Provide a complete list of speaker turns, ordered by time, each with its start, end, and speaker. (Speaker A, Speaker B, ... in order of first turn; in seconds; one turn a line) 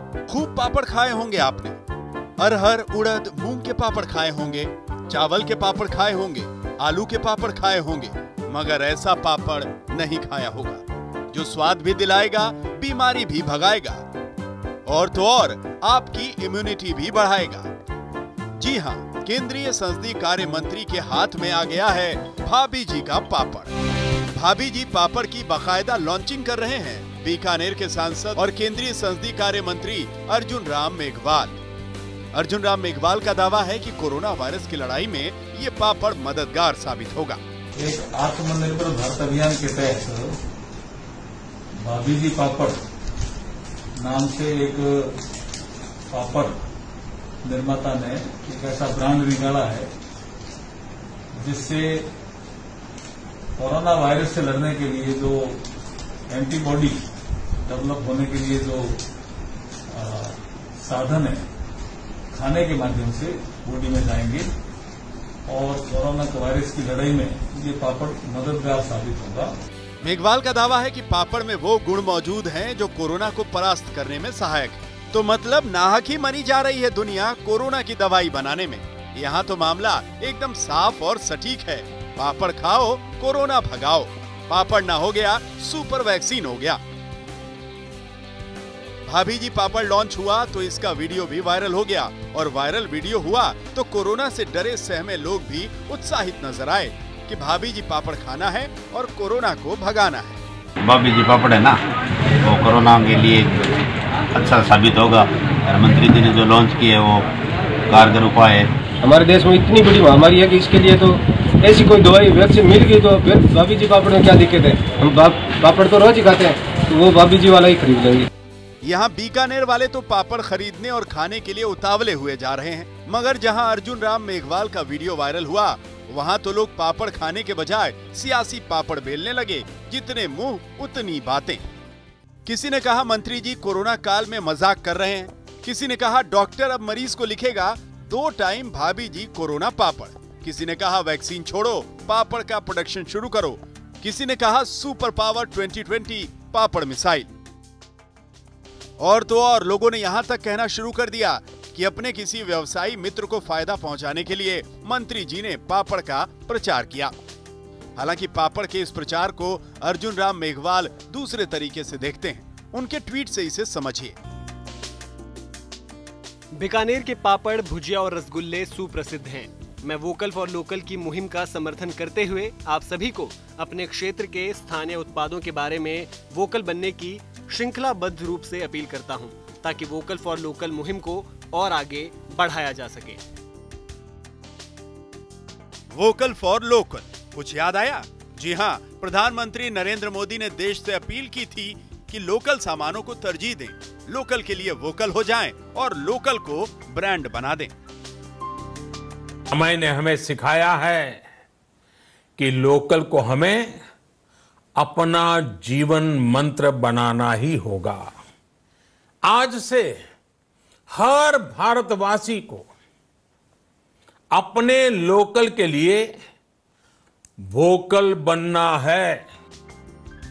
Speaker A: 0.3-1.8
Speaker A: 2.4-14.0
Speaker A: 14.9-17.7
Speaker A: 18.6-23.7
Speaker A: 24.3-31.6
Speaker A: 32.3-37.4
Speaker B: 37.8-40.4
Speaker B: 41.8-42.8
Speaker B: 44.0-45.2
Speaker B: 46.1-46.5
Speaker B: 47.4-49.9
Speaker B: 51.3-52.1
Speaker B: 53.6-55.6
Speaker B: 56.3-57.0
Speaker B: 57.6-59.0
Speaker B: 59.9-61.4
Speaker B: 62.3-64.5
Speaker B: 65.5-69.5
Speaker A: 70.0-86.8
Speaker A: 89.1-100.4
Speaker C: 100.8-101.8
Speaker C: 102.4-103.8
Speaker C: 104.3-107.3
Speaker C: 107.9-108.7
Speaker D: 109.0-118.3
Speaker A: 118.8-131.6
Speaker A: 132.4-147.3
Speaker A: 149.0-157.1
Speaker A: 157.9-164.2
Speaker E: 166.6-183.2
Speaker A: 185.9-197.7
Speaker F: 199.5-201.2
Speaker F: 202.4-203.8
Speaker F: 204.8-208.1
Speaker F: 209.2-210.0
Speaker F: 210.9-212.7
Speaker F: 214.3-216.2
Speaker F: 217.5-219.3